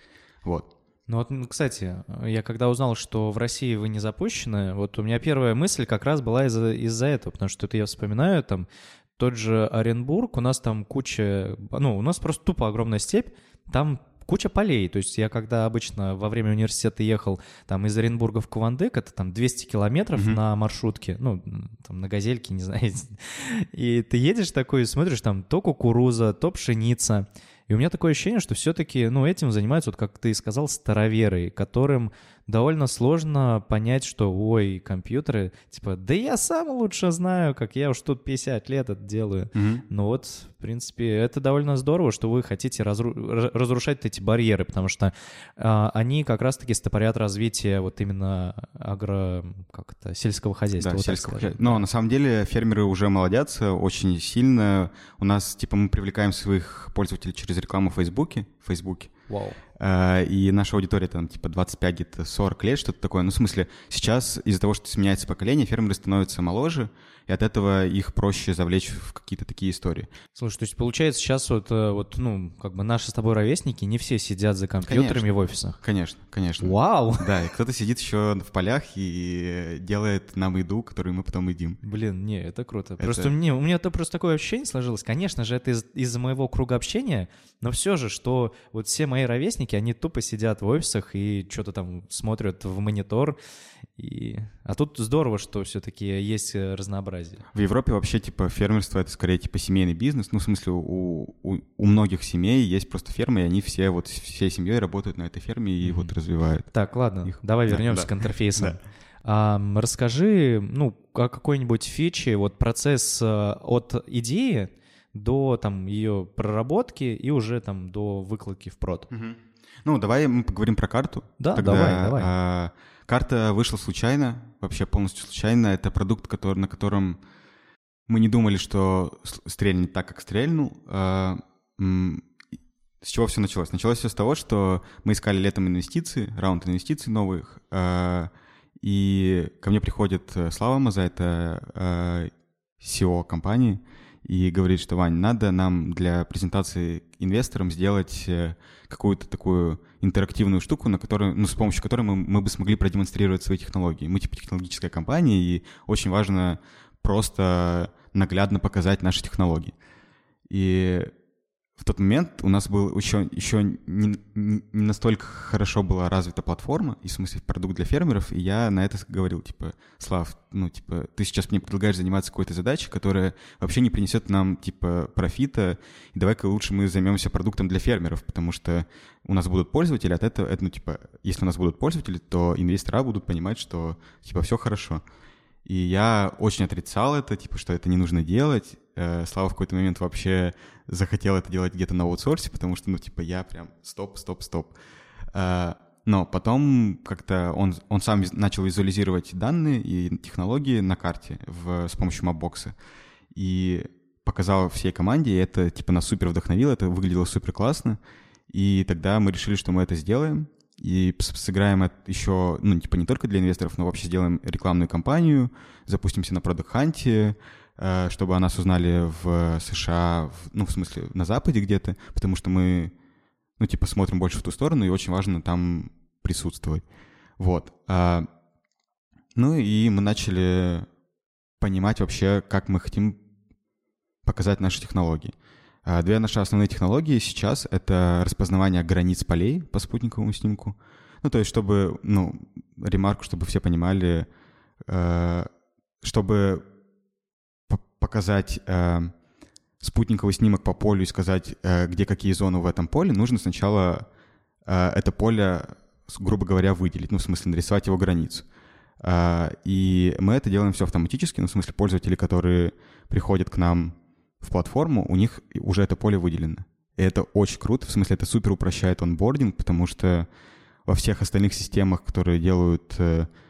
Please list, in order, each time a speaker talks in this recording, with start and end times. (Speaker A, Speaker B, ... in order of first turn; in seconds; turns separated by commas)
Speaker A: 0.4-0.7, Speaker B: 1.1-51.8, Speaker A: 39.5-39.8, Speaker A: 50.8-59.1, Speaker B: 59.3-59.6, Speaker A: 59.8-70.1, Speaker B: 70.3-75.8, Speaker A: 74.9-75.2, Speaker A: 75.8-81.8, Speaker B: 76.6-77.2, Speaker B: 81.8-93.4, Speaker A: 83.0-83.3, Speaker B: 94.0-97.4, Speaker A: 97.5-106.7, Speaker B: 105.8-106.1, Speaker B: 106.7-119.1, Speaker A: 107.2-108.8, Speaker A: 119.1-127.2, Speaker B: 121.4-122.3, Speaker A: 128.1-132.3, Speaker A: 133.0-159.7, Speaker A: 160.5-161.1, Speaker A: 161.8-185.0, Speaker A: 185.6-194.7, Speaker A: 195.3-202.7, Speaker A: 203.3-208.0, Speaker A: 208.5-222.9, Speaker A: 223.6-226.8, Speaker A: 227.4-228.3, Speaker A: 229.3-230.9, Speaker A: 231.6-233.2, Speaker A: 234.2-235.3, Speaker A: 235.8-244.3, Speaker A: 244.8-245.5, Speaker A: 246.0-246.6, Speaker A: 247.7-249.1, Speaker A: 249.8-254.0, Speaker A: 254.6-258.4, Speaker A: 259.0-270.3, Speaker A: 270.9-273.3